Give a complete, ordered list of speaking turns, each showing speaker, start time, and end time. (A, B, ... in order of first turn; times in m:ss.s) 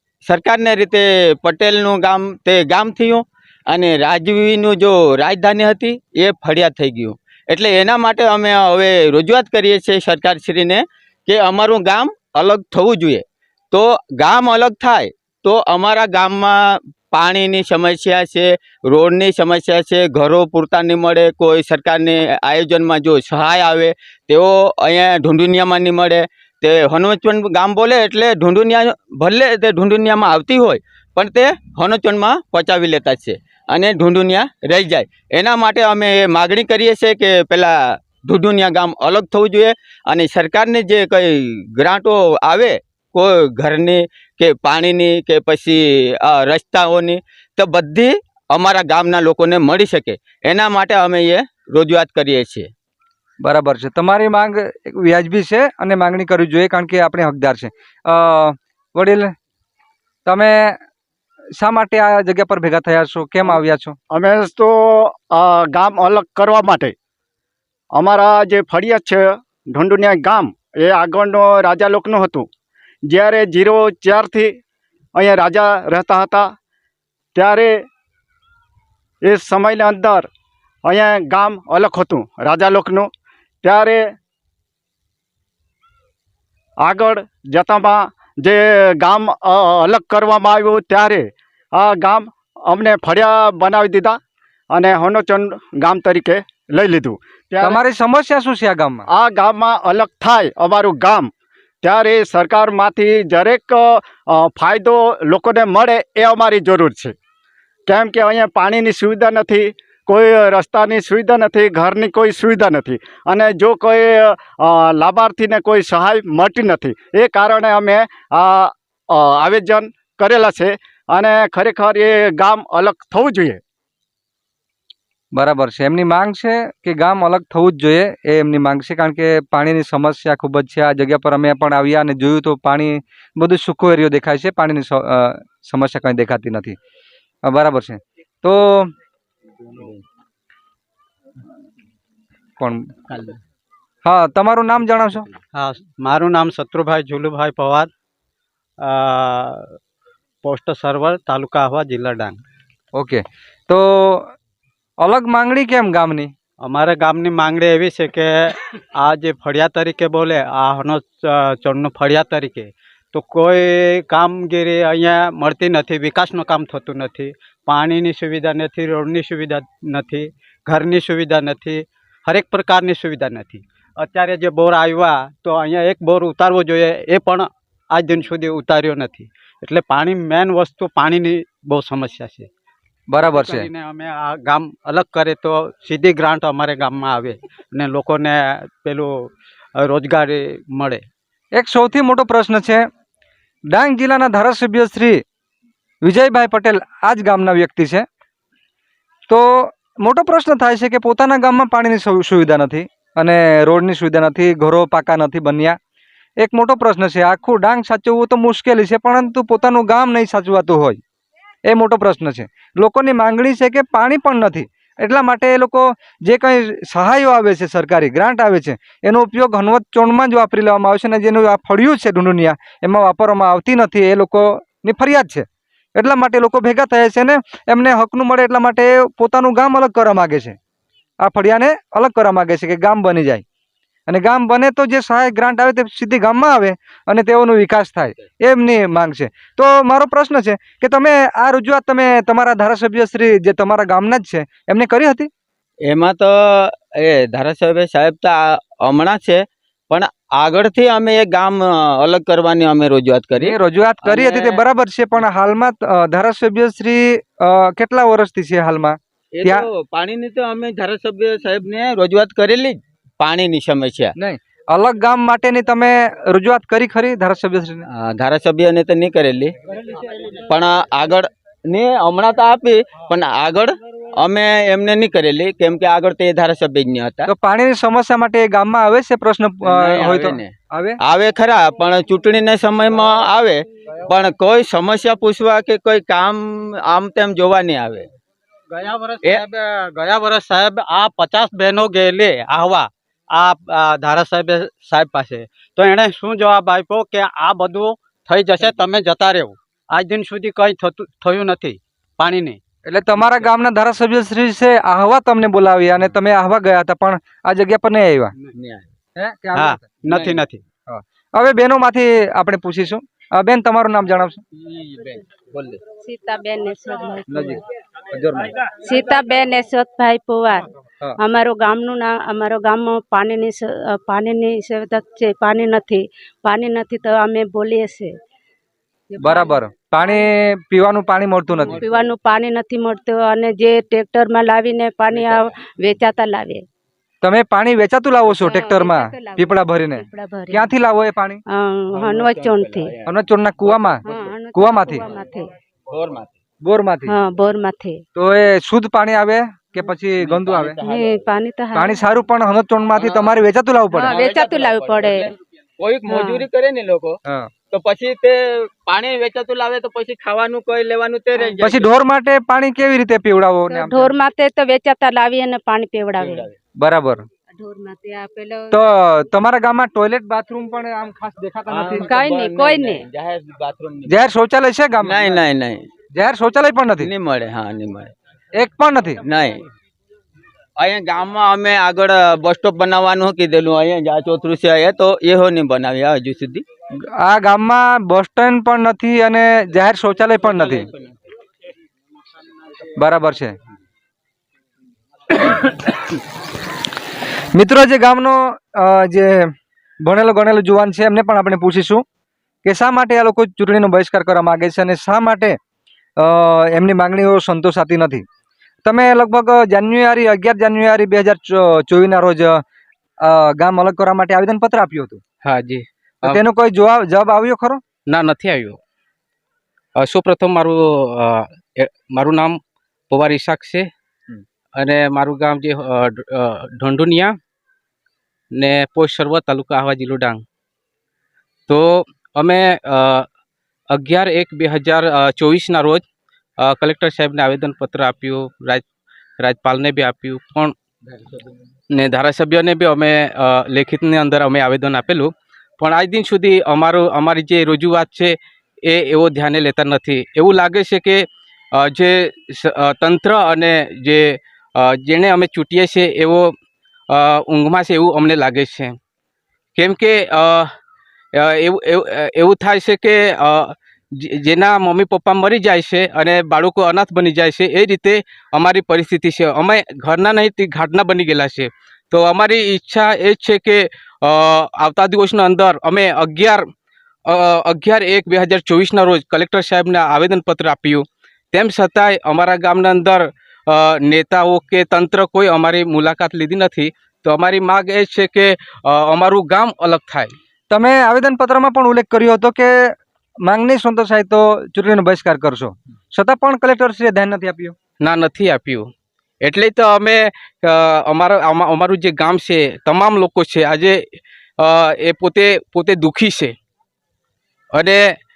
0:00.2-0:52.7 A
0:53.4-0:59.3 B
1:00.2-1:00.8 B
1:01.6-1:03.9 B
1:04.1-1:06.9 C
1:07.9-1:12.5 C
1:13.1-1:14.5 C
1:15.2-1:16.5 C
1:17.3-1:17.8 C
1:19.2-1:20.3 C
1:20.8-1:23.1 C
1:23.6-1:24.0 C
1:26.8-1:34.2 C
1:34.7-1:37.8 C
1:37.6-1:39.0 B
1:39.1-1:41.3 C
1:41.8-1:47.1 C
1:47.9-2:03.6 C
2:05.3-2:16.8 B
2:17.4-2:18.9 B
2:22.6-2:22.9 B
2:24.0-2:25.2 B
2:25.5-2:27.9 D
2:28.8-2:29.7 D
2:30.4-2:32.4 D
2:32.9-2:34.3 B
2:35.0-2:36.3 B
2:36.6-3:02.5 D
3:03.1-3:03.7 B
3:03.2-3:11.0 D
3:11.6-3:12.8 B
3:13.7-3:15.2 B
3:16.0-3:18.0 B
3:19.3-3:25.8 B
3:26.4-3:31.0 B
3:31.7-3:50.6 B
3:51.2-3:53.4 B
3:54.1-4:05.3 B
4:05.8-4:14.6 A
4:13.4-4:19.7 B
4:19.3-4:24.1 A
4:24.2-4:27.8 B
4:27.9-4:29.5 A
4:30.4-4:37.3 A
4:37.3-4:41.0 B
4:39.6-4:48.1 A
4:48.8-5:02.6 D
5:02.8-5:08.3 B
5:08.5-5:08.9 A
5:09.2-5:10.0 B
5:09.6-5:10.6 D
5:10.9-5:14.4 B
5:14.6-5:15.8 A
5:16.0-5:17.5 E
5:17.3-5:17.6 B
5:18.1-5:18.5 B
5:18.8-5:28.1 E
5:29.1-5:30.2 E
5:29.2-5:31.8 B
5:31.7-5:36.6 E
5:37.2-5:41.4 B
5:38.3-5:40.7 E
5:41.5-5:42.9 E
5:41.9-5:43.1 A
5:43.0-5:45.0 B
5:44.0-5:45.5 E
5:45.9-5:46.3 A
5:46.6-5:47.1 B
5:47.1-5:48.0 E
5:48.2-5:50.8 B
5:50.2-5:51.2 A
5:50.8-5:52.0 E
5:51.7-5:54.2 B
5:53.0-5:53.4 A
5:53.9-5:55.3 E
5:54.0-5:57.2 A
5:56.1-5:56.5 E
5:57.7-6:01.9 A
6:01.6-6:04.1 B
6:03.7-6:06.5 E
6:06.2-6:06.5 A
6:06.8-6:07.2 B
6:07.6-6:08.8 E
6:08.7-6:12.1 B
6:11.7-6:14.2 A
6:12.1-6:13.0 E
6:14.1-6:15.4 B
6:15.0-6:15.8 A
6:16.1-6:17.1 B
6:17.0-6:18.1 A
6:18.6-6:19.2 B
6:19.2-6:19.6 A
6:20.8-6:26.6 A
6:27.2-6:30.9 B
6:33.0-6:33.5 B
6:37.5-6:39.5 B
6:40.0-6:42.0 B
6:42.6-6:45.6 B
6:46.2-6:48.2 B
6:48.8-6:52.6 B
6:53.2-6:55.2 B
6:55.4-6:56.4 F
6:56.2-6:57.8 B
6:58.1-6:58.8 F
7:00.0-7:02.6 F
7:03.1-7:03.9 F
7:04.8-7:07.4 F
7:08.5-7:10.4 F
7:11.7-7:13.2 F
7:13.9-7:16.0 F
7:16.6-7:18.8 F
7:19.4-7:20.7 F
7:21.9-7:28.3 F
7:28.9-7:34.2 F
7:34.8-7:36.5 F
7:37.1-7:38.9 F
7:39.8-7:40.7 F
7:41.3-7:56.6 F
7:57.3-8:10.3 F
8:10.7-8:12.9 B
8:13.4-8:17.7 B
8:18.0-8:18.9 F
8:19.4-8:24.0 F
8:24.6-8:26.5 F
8:27.7-8:28.1 F